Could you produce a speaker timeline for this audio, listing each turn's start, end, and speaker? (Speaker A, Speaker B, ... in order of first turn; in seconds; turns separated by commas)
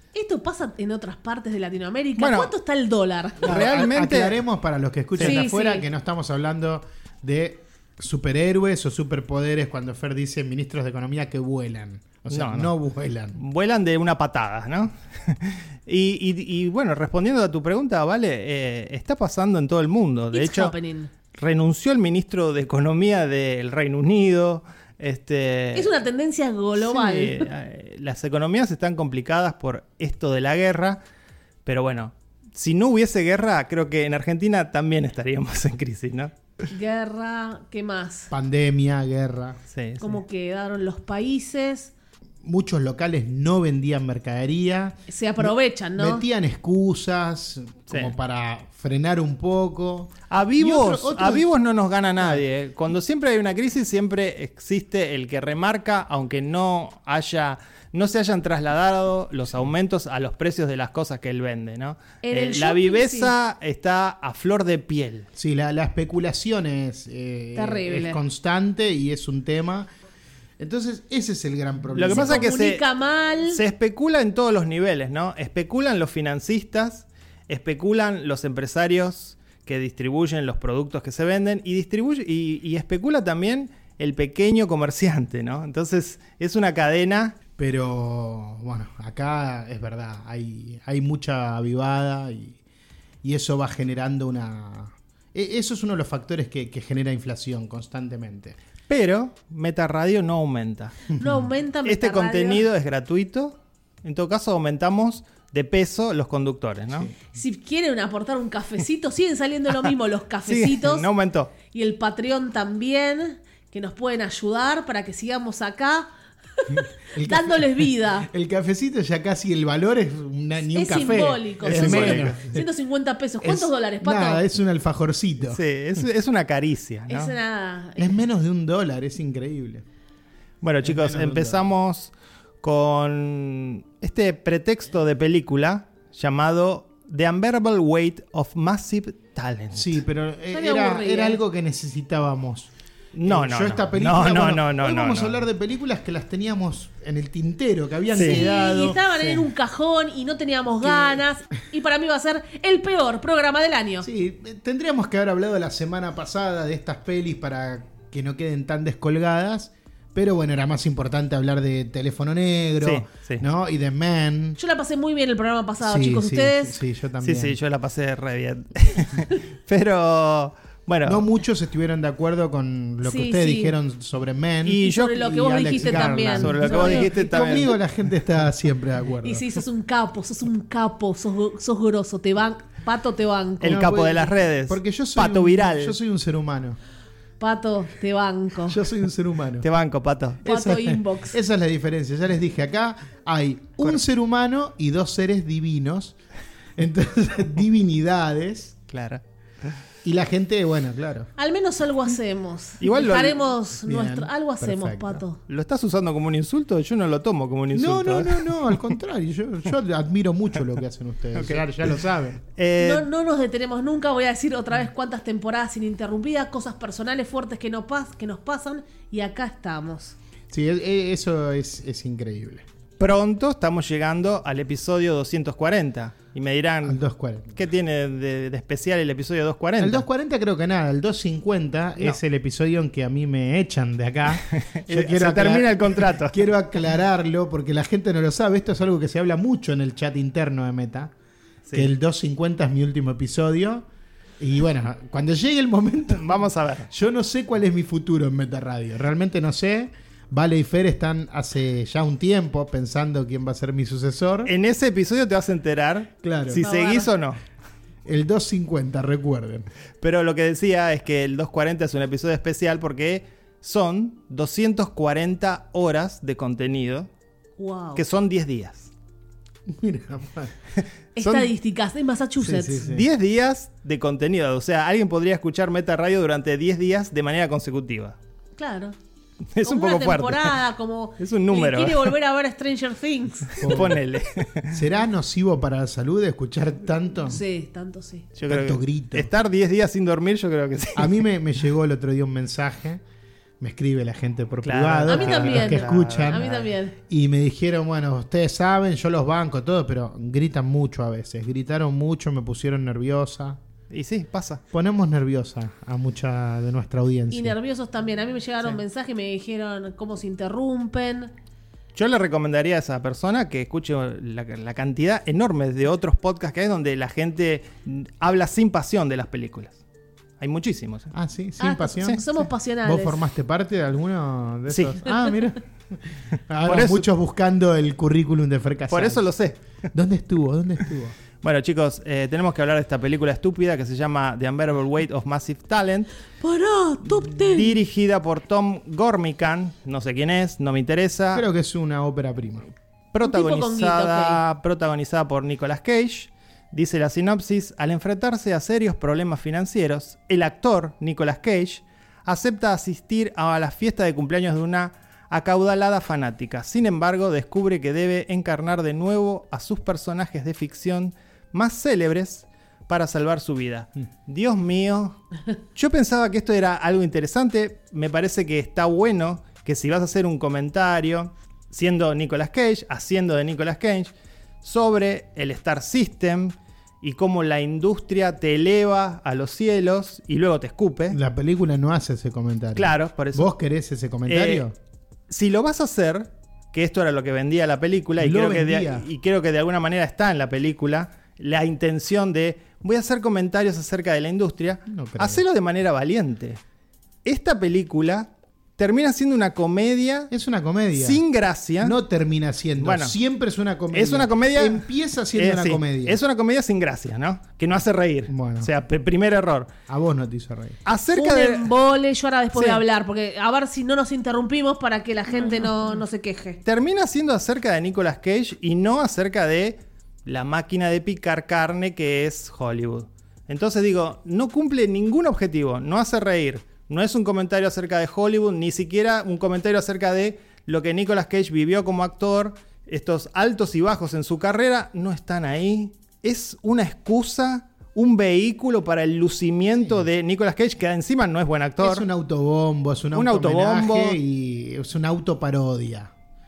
Speaker A: 0.1-3.6, Speaker B: 2.2-2.5, Speaker B: 3.4-4.4, Speaker C: 3.4-13.4, Speaker A: 5.2-5.8, Speaker B: 12.3-12.7, Speaker B: 13.3-20.7, Speaker A: 20.3-21.1, Speaker B: 21.3-25.9, Speaker A: 25.7-27.5, Speaker B: 26.8-31.0, Speaker B: 31.7-36.3, Speaker A: 36.7-38.3, Speaker C: 38.3-39.6, Speaker B: 39.7-40.2, Speaker A: 40.0-41.9, Speaker C: 42.4-51.5, Speaker A: 45.1-46.2, Speaker B: 50.3-65.3, Speaker A: 62.2-63.3, Speaker C: 65.3-69.9, Speaker A: 67.5-68.2, Speaker C: 70.6-72.5, Speaker B: 71.9-72.8, Speaker A: 72.1-73.6, Speaker B: 73.5-87.4, Speaker C: 87.6-92.6, Speaker C: 93.2-98.6, Speaker B: 98.9-101.1, Speaker C: 101.1-101.5, Speaker A: 101.2-102.6, Speaker B: 101.8-107.1, Speaker A: 107.3-111.1, Speaker B: 110.5-111.5, Speaker A: 111.7-118.3, Speaker C: 116.8-122.7, Speaker A: 120.7-124.4, Speaker B: 121.6-122.4, Speaker C: 123.4-126.0, Speaker B: 125.5-127.3, Speaker A: 127.1-128.1, Speaker C: 128.0-129.8, Speaker B: 130.6-140.0, Speaker C: 130.8-131.7, Speaker C: 139.7-142.7, Speaker A: 140.5-141.4, Speaker B: 143.1-145.4, Speaker C: 143.2-149.0, Speaker A: 148.1-154.1, Speaker B: 148.1-149.4, Speaker C: 150.8-151.2, Speaker C: 154.0-164.6, Speaker B: 162.8-163.4, Speaker A: 164.6-166.8, Speaker C: 165.8-167.6, Speaker B: 167.2-171.2, Speaker C: 171.1-179.4, Speaker A: 173.0-173.7, Speaker B: 174.6-177.8, Speaker A: 174.8-177.7, Speaker A: 179.2-184.0, Speaker B: 183.6-186.0, Speaker C: 183.7-186.8, Speaker A: 187.4-188.8, Speaker C: 188.7-189.7, Speaker B: 189.6-190.4, Speaker C: 190.4-196.2, Speaker A: 190.4-191.4, Speaker C: 196.8-198.8, Speaker B: 198.9-199.2, Speaker C: 200.0-201.3, Speaker A: 201.4-205.4, Speaker B: 202.8-203.5, Speaker C: 203.8-205.2, Speaker B: 205.5-208.5, Speaker C: 207.7-212.4, Speaker B: 211.3-211.6, Speaker B: 212.6-213.1, Speaker A: 212.8-220.2, Speaker C: 220.5-222.6, Speaker B: 223.0-227.0, Speaker C: 226.8-227.6, Speaker B: 227.6-230.1, Speaker C: 229.8-241.1, Speaker B: 234.5-236.4, Speaker C: 241.7-243.8, Speaker C: 244.4-254.5, Speaker B: 246.1-246.9, Speaker B: 254.4-257.4, Speaker C: 256.2-256.6, Speaker A: 256.6-257.1, Speaker C: 258.1-259.6, Speaker B: 260.0-267.1, Speaker A: 267.6-268.0, Speaker B: 267.9-268.9, Speaker C: 269.7-270.6, Speaker A: 271.1-272.8, Speaker B: 271.2-271.5, Speaker C: 272.4-273.1, Speaker B: 272.8-278.1, Speaker A: 278.6-278.9, Speaker B: 279.5-280.6, Speaker A: 279.6-283.6, Speaker B: 281.2-282.1, Speaker B: 283.6-284.8, Speaker C: 283.6-284.0, Speaker C: 284.7-287.4, Speaker A: 287.2-288.3, Speaker B: 288.4-291.2, Speaker C: 288.5-289.3, Speaker C: 290.9-293.0, Speaker C: 293.6-303.6, Speaker B: 294.6-296.6, Speaker A: 295.1-296.9, Speaker B: 303.9-304.6, Speaker C: 304.7-307.6, Speaker A: 307.3-311.3, Speaker B: 311.9-319.8, Speaker B: 320.4-321.1, Speaker C: 321.1-329.3, Speaker A: 321.6-323.2, Speaker B: 324.7-325.2, Speaker B: 326.6-327.1, Speaker B: 328.9-329.6, Speaker C: 329.9-331.2, Speaker B: 331.4-336.1, Speaker A: 336.4-337.8, Speaker B: 337.1-341.4, Speaker C: 341.3-342.7, Speaker B: 343.1-365.2, Speaker A: 343.2-344.4, Speaker B: 365.8-374.1, Speaker B: 374.6-381.2, Speaker C: 381.1-384.7, Speaker B: 382.8-383.5, Speaker B: 384.3-384.6, Speaker B: 385.3-396.6, Speaker C: 388.2-389.1, Speaker C: 394.9-395.4, Speaker B: 397.2-400.3, Speaker C: 400.3-401.2, Speaker B: 400.9-402.0, Speaker C: 401.8-406.2, Speaker B: 402.8-403.1, Speaker B: 403.9-409.7, Speaker C: 408.3-408.7, Speaker C: 409.9-410.8, Speaker B: 410.8-411.7, Speaker A: 411.1-416.6, Speaker B: 412.6-412.8, Speaker B: 415.4-415.7, Speaker B: 416.6-442.1, Speaker C: 441.8-446.1, Speaker B: 443.1-444.2